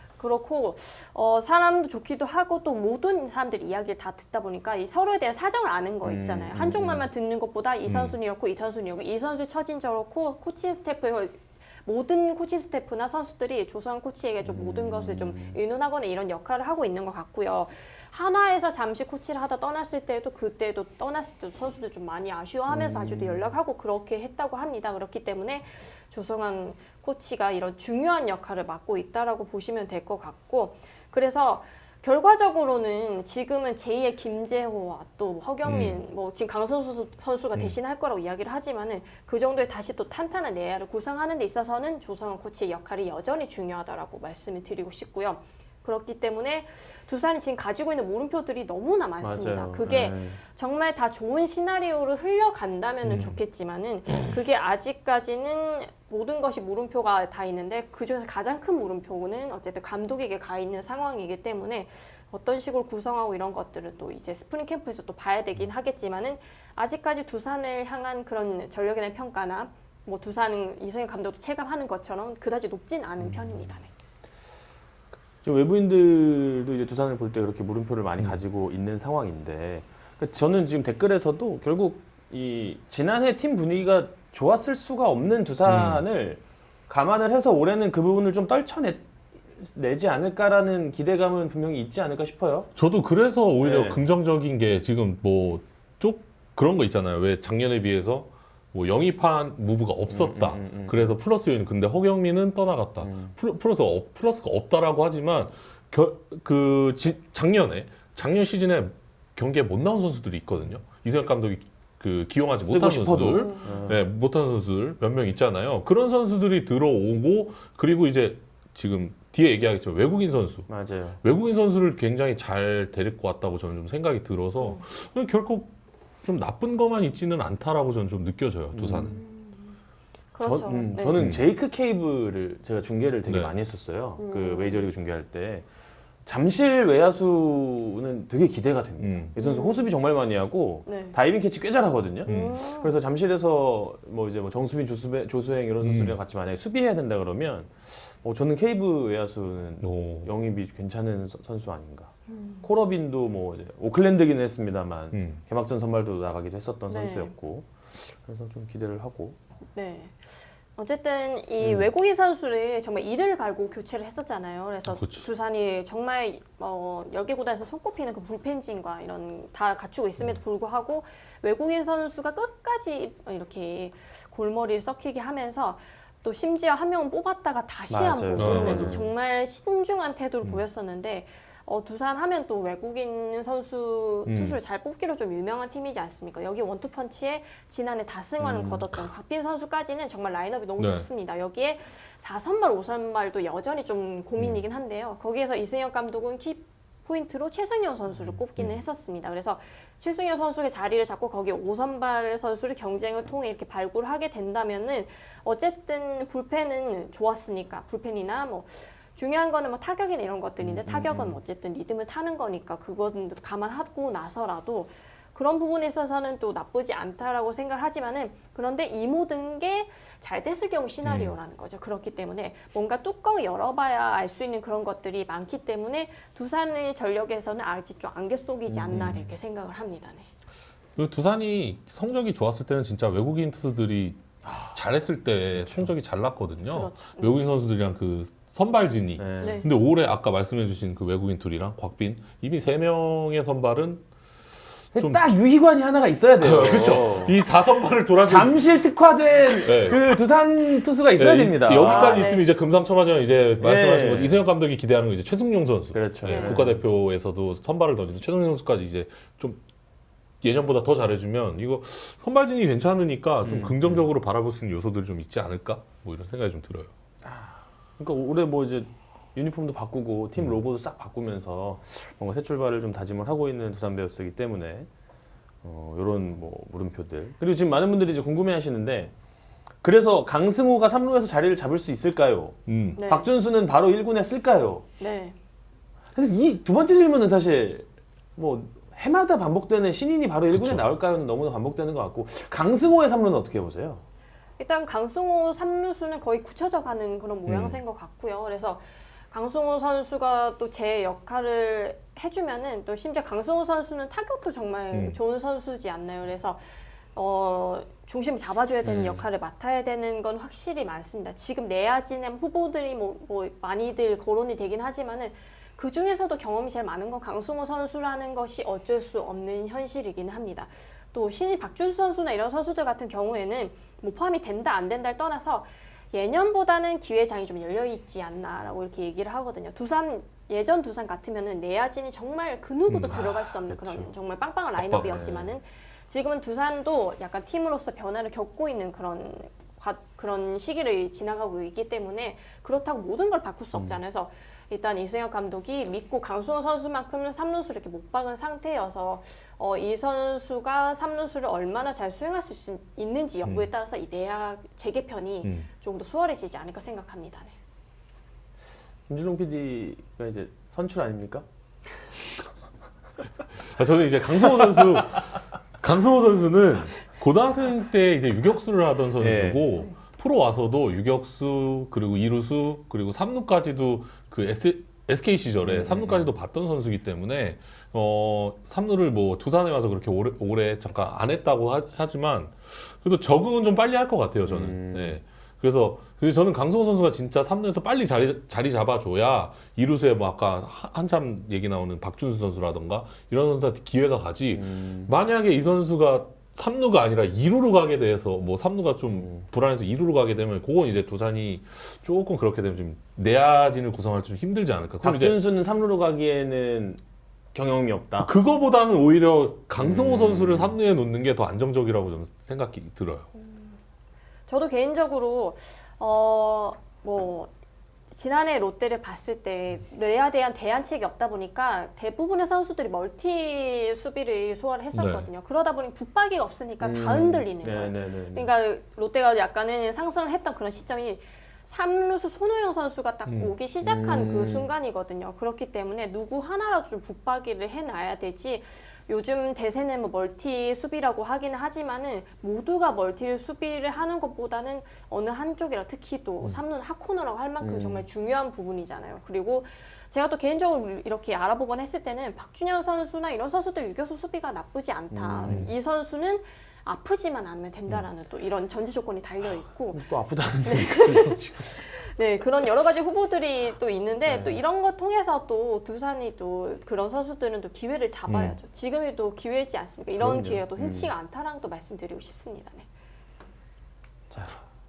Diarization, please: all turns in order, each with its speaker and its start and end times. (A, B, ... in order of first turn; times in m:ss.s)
0:00.2-1:13.9 A
0:06.0-0:07.1 B
0:07.8-0:08.2 C
0:14.4-0:15.6 B
0:22.7-0:23.5 B
0:35.6-0:36.0 C
0:49.2-0:50.4 B
0:53.0-0:53.4 C
1:13.3-1:13.7 B
1:15.4-1:29.0 B
1:25.7-1:26.0 C
1:29.6-1:32.7 B
1:32.8-2:00.7 C
1:33.6-1:34.0 B
1:40.1-1:41.1 B
1:43.0-1:43.3 B
1:52.6-1:54.0 B
1:53.4-1:53.7 A
2:00.7-2:01.2 B
2:01.2-2:09.2 C
2:08.7-2:09.2 B
2:09.0-2:09.7 A
2:10.3-2:11.2 A
2:10.4-2:15.6 B
2:11.2-2:11.4 C
2:13.3-2:13.5 C
2:14.2-2:14.9 A
2:16.2-2:39.4 B
2:19.0-2:19.3 C
2:19.4-2:19.9 A
2:20.8-2:21.2 A
2:22.2-2:22.6 C
2:22.2-2:23.0 A
2:25.8-2:26.2 C
2:29.8-2:30.3 C
2:32.3-2:32.6 A
2:35.1-2:35.4 C
2:36.9-2:37.3 A
2:39.7-3:50.3 A
2:44.9-2:45.3 C
2:57.9-2:59.1 B
2:58.3-2:59.0 C
3:04.2-3:04.6 C
3:08.4-3:08.8 B
3:10.8-3:11.1 C
3:30.6-3:31.4 B
3:41.0-3:41.4 C
3:48.7-3:49.3 B
3:51.0-4:04.0 C
3:54.4-3:54.8 B
3:55.6-3:55.9 B
3:56.7-3:57.4 A
3:59.2-3:59.6 B
3:59.4-3:59.7 A
4:04.9-4:05.2 C
4:04.9-4:07.4 B
4:06.4-4:08.6 C
4:08.2-4:12.3 B
4:09.6-4:10.1 C
4:11.2-4:19.6 C
4:11.8-4:12.5 A
4:13.6-4:14.4 B
4:15.9-4:16.8 B
4:16.2-4:16.6 A
4:20.4-4:26.9 C
4:23.4-4:24.1 B
4:27.2-4:34.9 B
4:35.6-4:39.1 B
4:39.8-4:44.8 B
4:42.7-4:43.0 C
4:43.0-4:43.3 A
4:45.0-4:45.4 A
4:46.1-4:54.0 B
4:50.5-4:50.9 C
4:54.6-5:06.6 A
4:57.5-4:57.8 C
5:04.9-5:05.2 C
5:07.1-5:57.5 A
5:08.8-5:09.2 B
5:32.9-5:33.3 C
5:33.1-5:34.1 B
5:34.8-5:35.2 C
5:35.0-5:35.5 B
5:43.7-5:44.0 B
5:59.1-6:01.4 B
6:03.6-6:45.4 C
6:04.6-6:05.0 B
6:09.2-6:09.7 B
6:15.6-6:16.3 B
6:24.4-6:25.2 B
6:34.5-6:35.1 B
6:45.0-6:47.0 B
6:47.5-6:48.3 B
6:48.2-6:53.3 C
6:49.8-6:50.8 B
6:53.4-6:53.8 A
6:54.5-6:57.5 A
6:58.1-7:40.1 A
7:04.9-7:05.3 C
7:06.8-7:08.5 B
7:13.3-7:13.5 C
7:13.8-7:14.7 B
7:27.6-7:28.0 B
7:35.1-7:35.7 B
7:39.9-7:41.8 B
7:40.6-7:52.8 A
7:44.2-7:44.6 B
7:48.3-7:48.6 C
7:50.2-7:50.6 C
7:50.2-7:51.1 B
7:54.3-7:54.6 B